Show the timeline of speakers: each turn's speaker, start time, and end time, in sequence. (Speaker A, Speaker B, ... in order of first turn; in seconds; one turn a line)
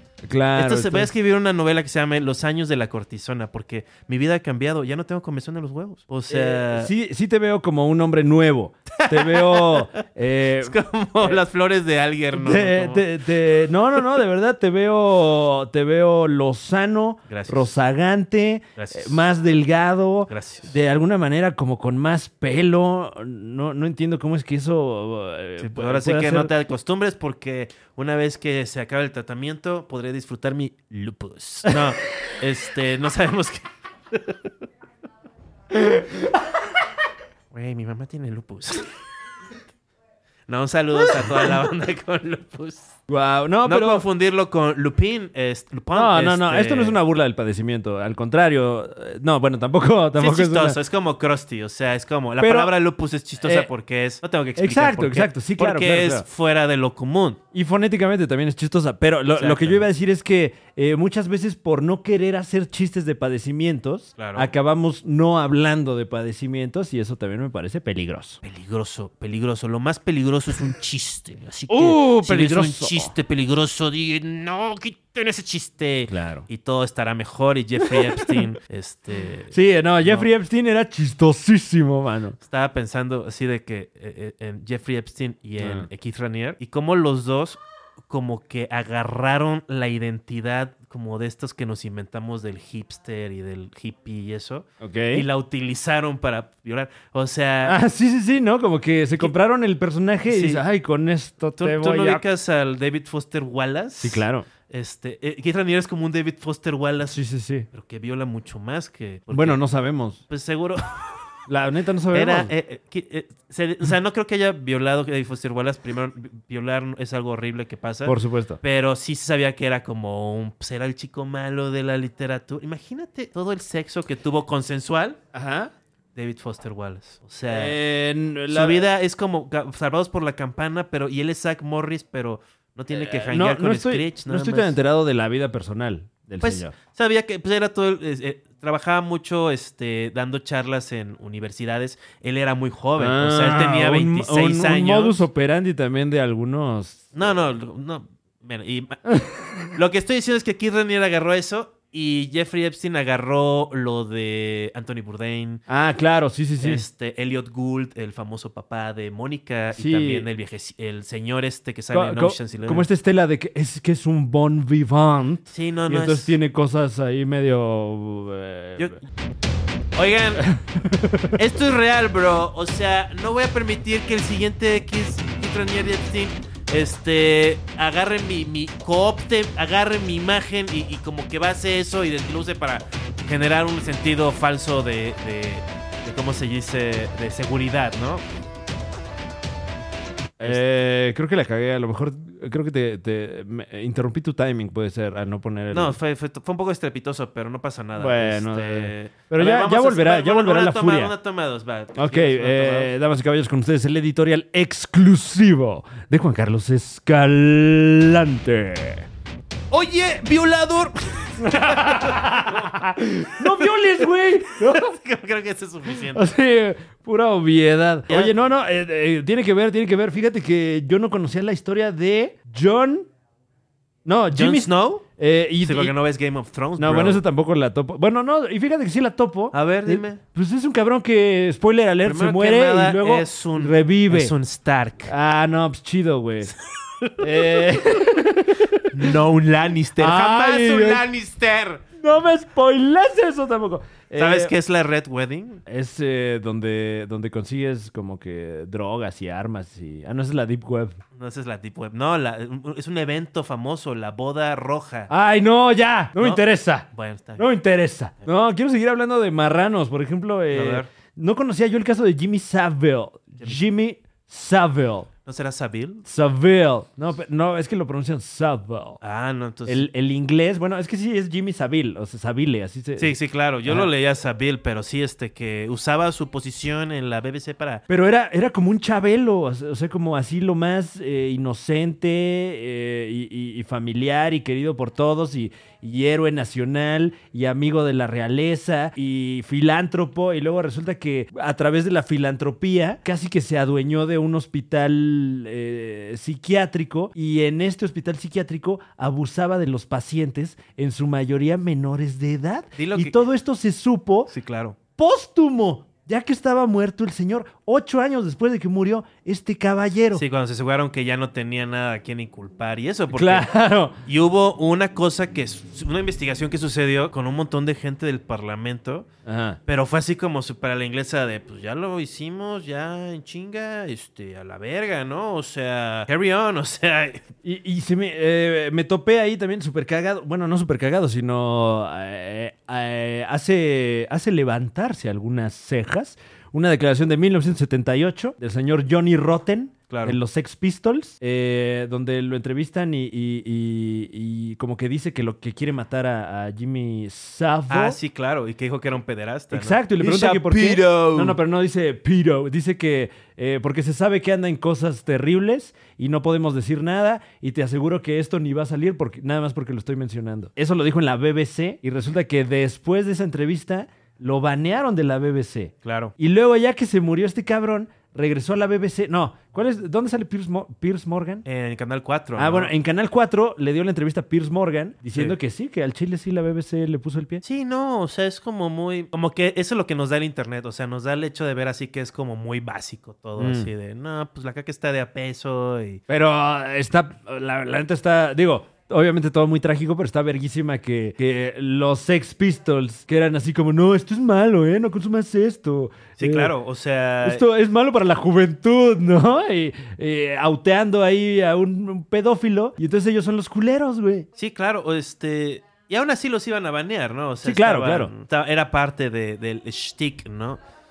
Speaker A: 0.2-1.1
Speaker B: 0.5-6.9
Speaker A: 6.3-11.4
Speaker B: 9.0-9.9
Speaker B: 10.6-13.1
Speaker A: 12.3-26.5
Speaker B: 17.3-17.7
Speaker B: 18.8-19.2
Speaker B: 20.3-20.7
Speaker B: 25.6-34.4
Speaker A: 31.7-31.9
Speaker A: 35.7-36.4
Speaker B: 37.5-38.9
Speaker B: 40.5-43.0
Speaker A: 41.1-41.5
Speaker A: 43.1-44.0
Speaker B: 43.6-47.0
Speaker A: 45.9-50.8
Speaker B: 50.2-57.4
Speaker A: 52.4-52.7
Speaker A: 53.4-53.7
Speaker A: 54.6-56.2
Speaker A: 57.5-68.4
Speaker B: 59.3-59.9
Speaker B: 64.2-64.5
Speaker B: 68.4-80.3
Speaker A: 71.7-73.1
Speaker A: 76.1-76.5
Speaker A: 77.8-78.4
Speaker A: 79.5-82.4
Speaker B: 82.4-97.8
Speaker A: 85.6-85.9
Speaker A: 94.8-95.2
Speaker A: 97.6-102.2
Speaker B: 100.3-100.6
Speaker B: 101.6-107.2
Speaker A: 104.0-104.5
Speaker A: 107.1-107.7
Speaker B: 107.7-109.6
Speaker A: 109.3-110.2
Speaker B: 110.3-111.3
Speaker A: 111.5-112.5
Speaker B: 112.1-125.2
Speaker A: 118.0-118.6
Speaker A: 125.3-125.7
Speaker B: 126.2-127.8
Speaker A: 127.5-128.9
Speaker B: 128.5-134.8
Speaker A: 132.9-136.7
Speaker B: 136.4-145.2
Speaker A: 143.0-147.1
Speaker B: 147.1-155.6
Speaker A: 149.1-149.6
Speaker A: 155.7-156.8
Speaker B: 156.6-162.8
Speaker A: 159.7-160.3
Speaker A: 161.9-168.9
Speaker B: 165.5-166.3
Speaker B: 169.9-170.5
Speaker A: 170.5-171.4
Speaker B: 171.3-188.3
Speaker A: 190.4-196.0
Speaker B: 195.7-202.9
Speaker A: 198.0-201.1
Speaker A: 201.9-209.1
Speaker B: 209.7-212.9
Speaker A: 211.4-214.9
Speaker B: 213.4-213.8
Speaker B: 214.5-216.3
Speaker A: 215.9-223.1
Speaker B: 218.1-218.4
Speaker A: 224.0-225.9
Speaker B: 224.3-225.0
Speaker B: 225.6-227.2
Speaker A: 226.8-234.3
Speaker B: 229.5-230.2
Speaker B: 232.0-235.1
Speaker A: 235.1-236.5
Speaker B: 236.7-237.7
Speaker A: 237.2-239.2
Speaker B: 238.9-241.8
Speaker A: 240.0-241.1
Speaker A: 241.9-244.5
Speaker B: 244.2-245.6
Speaker A: 245.7-251.0
Speaker B: 251.2-255.1
Speaker A: 255.1-265.1
Speaker B: 256.2-257.4
Speaker B: 260.5-260.9
Speaker B: 265.2-266.0
Speaker A: 266.1-269.0
Speaker B: 269.0-269.9
Speaker A: 269.6-273.9
Speaker B: 273.0-277.8
Speaker A: 277.9-304.3
Speaker B: 302.8-303.3
Speaker B: 304.3-304.8
Speaker A: 305.0-310.2
Speaker B: 310.1-313.5
Speaker A: 313.1-313.9
Speaker B: 314.1-319.1
Speaker A: 319.2-319.6
Speaker B: 319.7-327.3
Speaker A: 327.4-348.0
Speaker B: 339.9-340.2
Speaker B: 347.7-351.4
Speaker A: 349.5-371.4
Speaker B: 365.8-366.1
Speaker B: 371.4-372.7
Speaker A: 372.4-377.4
Speaker B: 377.4-386.0
Speaker A: 383.4-383.7
Speaker A: 386.1-396.5
Speaker B: 396.2-397.4
Speaker A: 397.2-404.3
Speaker B: 404.4-410.6
Speaker A: 407.4-408.1